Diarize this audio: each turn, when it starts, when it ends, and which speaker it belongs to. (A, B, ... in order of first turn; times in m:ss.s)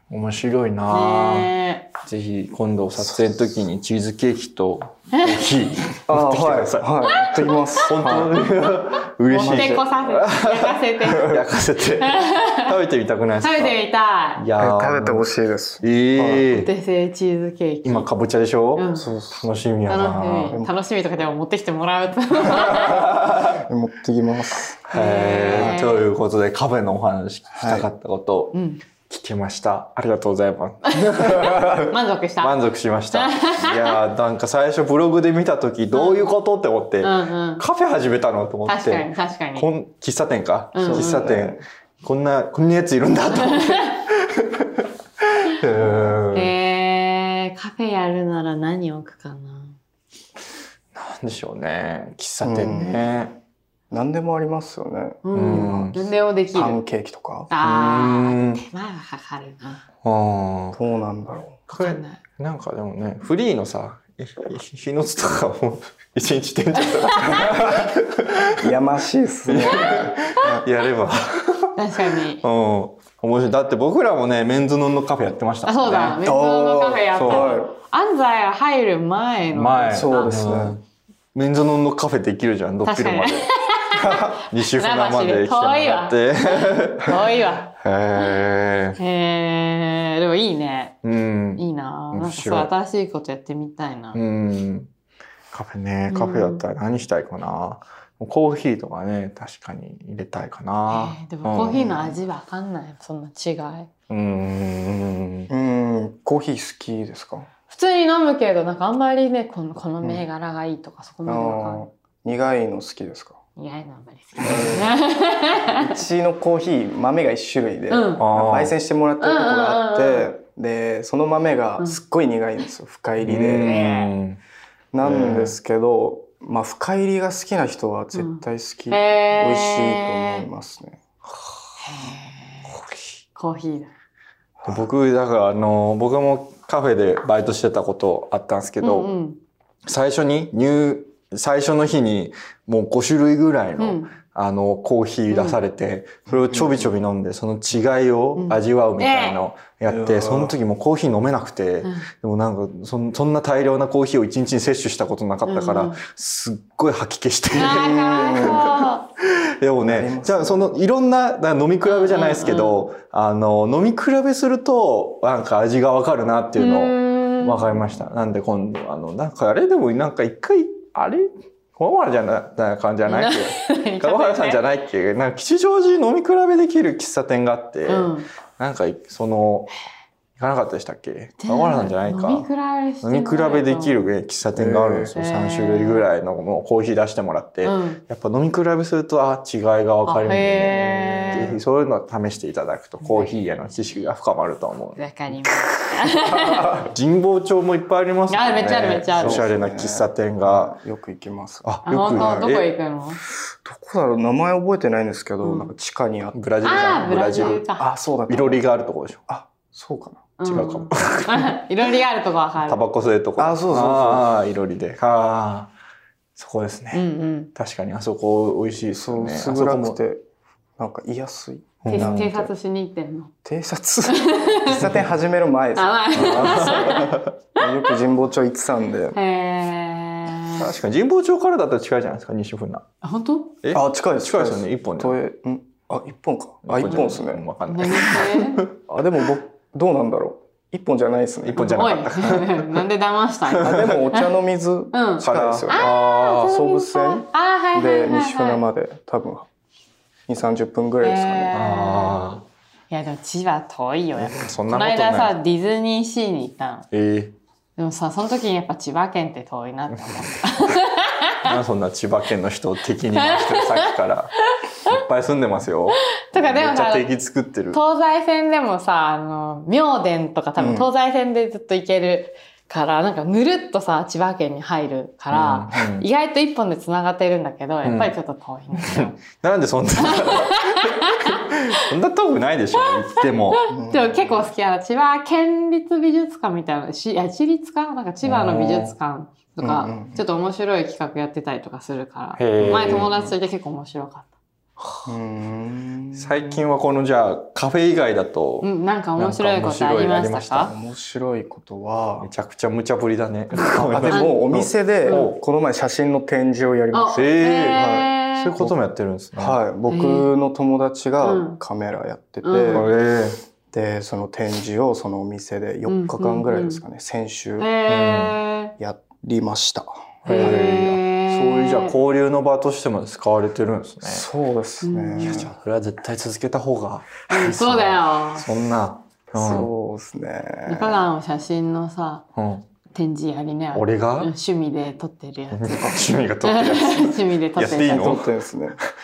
0:00.1-0:06.9 A
0:00.9-0:01.9 B
0:05.1-0:05.4 B
0:06.1-0:08.3 C
0:07.1-0:07.4 B
0:07.8-0:13.8 A
0:09.3-0:11.4 B
0:09.3-0:09.8 C
0:11.1-0:11.4 C
0:12.0-0:12.8 B
0:13.4-0:14.4 B
0:14.4-0:15.3 A
0:14.6-0:16.5 C
0:15.8-0:16.7 A
0:16.5-0:18.1 B
0:17.8-0:20.6 A
0:18.8-0:19.1 B
0:18.9-0:19.5 C
0:19.9-0:23.0 B
0:20.5-0:20.7 C
0:22.5-0:23.6 A
0:22.7-0:24.8 C
0:24.9-0:28.5 A
0:24.9-0:26.0 B
0:27.5-0:27.9 C
0:28.5-0:28.8 B
0:29.1-0:44.8 A
0:30.8-0:32.5 B
0:33.1-0:34.0 B
0:35.9-0:36.3 B
0:37.0-0:37.6 B
0:38.7-0:39.7 B
0:40.7-0:41.2 B
0:40.8-0:41.6 C
0:43.3-0:43.9 B
0:45.4-0:46.5 A
0:45.8-0:46.1 C
0:46.3-0:49.8 B
0:50.9-0:53.4 A
0:52.4-0:53.0 C
0:53.9-0:55.9 C
0:55.2-0:56.8 B
0:55.3-0:56.1 A
0:56.5-0:57.5 C
0:57.5-0:59.8 B
0:57.6-0:58.6 A
1:00.0-1:00.8 A
1:00.7-1:01.6 C
1:01.7-1:08.7 A
1:01.8-1:02.2 B
1:07.0-1:07.6 B
1:08.6-1:10.6 C
1:09.5-1:11.8 A
1:11.8-1:12.4 B
1:12.4-1:16.2 A
1:15.6-1:20.4 B
1:16.2-1:17.7 C
1:17.2-1:17.5 A
1:19.5-1:20.8 A
1:19.9-1:20.8 C
1:21.3-1:23.5 A
1:22.8-1:28.3 B
1:24.0-1:24.3 C
1:24.1-1:29.0 A
1:29.0-1:31.0 B
1:31.0-1:32.7 A
1:31.6-1:34.2 B
1:34.1-1:34.9 A
1:35.5-1:41.9 A
1:36.1-1:36.6 B
1:40.9-1:43.9 B
1:41.7-1:42.1 C
1:44.1-1:45.5 A
1:45.5-1:47.5 C
1:47.7-1:51.8 B
1:51.2-1:53.4 C
1:53.6-1:55.9 B
1:54.4-1:54.9 C
1:55.7-2:03.7 C
1:57.9-1:58.2 B
1:58.2-1:58.7 A
1:59.2-2:00.3 B
2:03.2-2:04.4 A
2:03.6-2:04.1 B
2:04.9-2:11.0 C
2:05.0-2:05.6 A
2:08.1-2:10.4 B
2:11.8-2:12.7 B
2:12.7-2:13.0 A
2:13.3-2:13.9 B
2:14.6-2:14.8 C
2:14.6-2:19.1 A
2:18.8-2:19.4 B
2:19.8-2:38.8 A
2:23.8-2:24.1 B
2:25.3-2:25.6 B
2:26.5-2:26.8 C
2:28.4-2:29.4 B
2:29.9-2:30.5 C
2:35.4-2:36.0 B
2:37.5-2:39.0 B
2:37.6-2:38.8 C
2:39.6-2:59.7 A
2:39.8-2:40.7 C
2:41.8-2:42.8 B
2:46.6-2:47.8 B
2:53.1-2:54.6 B
2:57.9-2:58.3 B
3:00.4-3:02.5 A
3:01.4-3:04.0 B
3:03.0-3:15.0 A
3:04.5-3:05.1 C
3:05.1-3:06.1 B
3:07.6-3:08.0 B
3:10.0-3:11.6 B
3:13.0-3:13.3 B
3:15.0-3:16.8 B
3:16.3-3:20.8 A
3:18.3-3:19.4 B
3:19.2-3:22.4 C
3:21.6-3:22.7 A
3:21.8-3:23.2 B
3:23.6-3:28.6 C
3:25.4-3:25.7 B
3:26.3-3:27.6 A
3:26.6-3:27.9 B
3:28.3-3:29.2 A
3:29.3-3:30.3 C
3:30.4-3:32.8 B
3:30.4-3:31.6 A
3:32.6-3:35.7 A
3:33.4-3:34.3 C
3:36.4-3:40.0 A
3:36.9-3:37.5 B
3:38.9-3:40.2 C
3:40.8-3:42.5 C
3:41.8-3:42.4 A
3:41.9-3:43.3 B
3:43.4-3:49.2 C
3:44.1-3:44.8 B
3:45.7-3:47.6 B
3:46.1-3:47.3 A
3:49.1-3:50.7 B
3:50.5-3:52.8 A
3:53.0-3:53.6 B
3:53.6-3:55.2 A
3:53.7-3:57.4 C
3:56.6-3:58.7 A
3:57.6-3:58.6 B
3:58.9-4:01.8 C
4:01.4-4:02.8 A
4:01.6-4:04.3 B
4:03.5-4:04.0 A
4:03.5-4:09.5 C
4:04.9-4:08.6 B
4:05.2-4:06.5 A
4:10.3-4:11.6 C
4:11.0-4:12.2 B
4:11.5-4:12.4 A
4:12.9-4:16.9 B
4:14.2-4:15.3 A
4:16.9-4:17.3 A
4:17.8-4:21.5 B
4:21.4-4:24.3 A
4:23.2-4:23.9 B
4:24.8-4:27.8 A
4:26.3-4:27.1 B
4:27.7-4:39.2 B
4:30.6-4:30.9 C
4:35.3-4:36.1 A
4:37.8-4:38.1 A
4:38.8-4:43.6 A
4:40.0-4:41.8 B
4:42.8-4:54.3 B
4:43.7-4:44.4 C
4:48.2-4:48.9 A
4:49.6-4:50.2 C
4:52.4-4:53.3 A
4:52.6-4:53.1 C
4:54.8-4:55.1 A
4:55.0-4:56.6 C
4:56.1-5:00.7 A
4:58.6-5:00.7 B
5:00.6-5:02.3 C
5:02.2-5:05.4 A
5:03.6-5:04.4 B
5:03.6-5:08.7 C
5:06.9-5:08.7 B
5:07.1-5:09.6 A
5:09.4-5:12.9 C
5:09.9-5:10.3 B
5:11.2-5:11.6 B
5:12.4-5:12.9 B
5:12.7-5:13.4 A
5:13.7-5:17.7 C
5:15.9-5:16.8 B
5:17.6-5:18.8 B
5:17.9-5:18.4 A
5:18.8-5:20.6 C
5:20.2-5:24.3 A
5:20.3-5:21.9 B
5:24.0-5:25.5 C
5:24.8-5:25.5 B
5:25.2-5:29.7 A
5:27.3-5:28.5 B
5:29.3-5:31.0 C
5:30.6-5:32.2 B
5:32.4-5:32.7 A
5:32.9-5:38.2 B
5:33.7-5:34.3 A
5:35.5-5:38.3 A
5:37.7-5:38.8 C